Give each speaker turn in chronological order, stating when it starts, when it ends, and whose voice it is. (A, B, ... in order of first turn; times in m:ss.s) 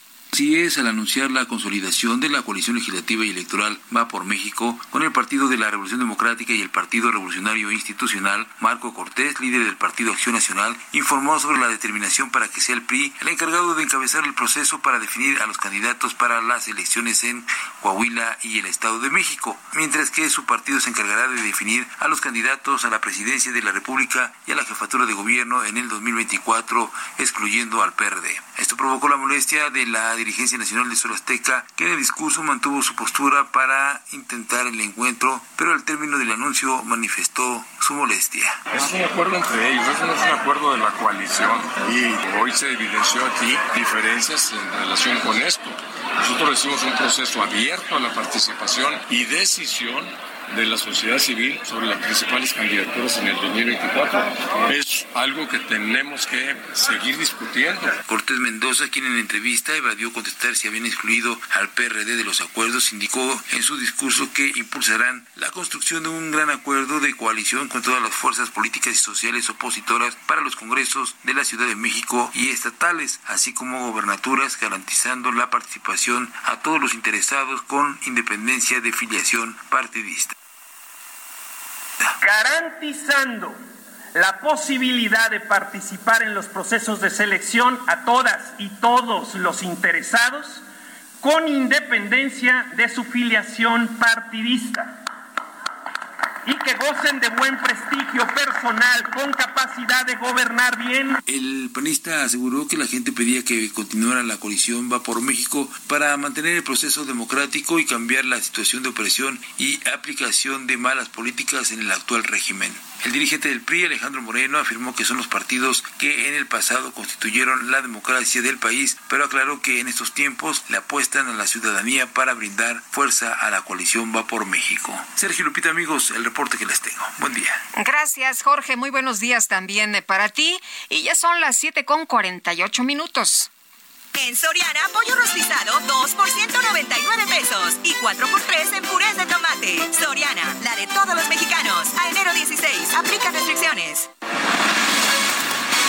0:00.3-0:38.6 A
0:38.7-0:58.0 B
0:58.0-1:20.3 A
1:22.2-1:23.6 C
1:24.1-1:30.6 C
1:31.2-1:35.0 C
1:36.4-1:41.2 C
1:41.3-2:07.6 A
2:07.7-2:13.5 D
2:14.2-2:24.1 E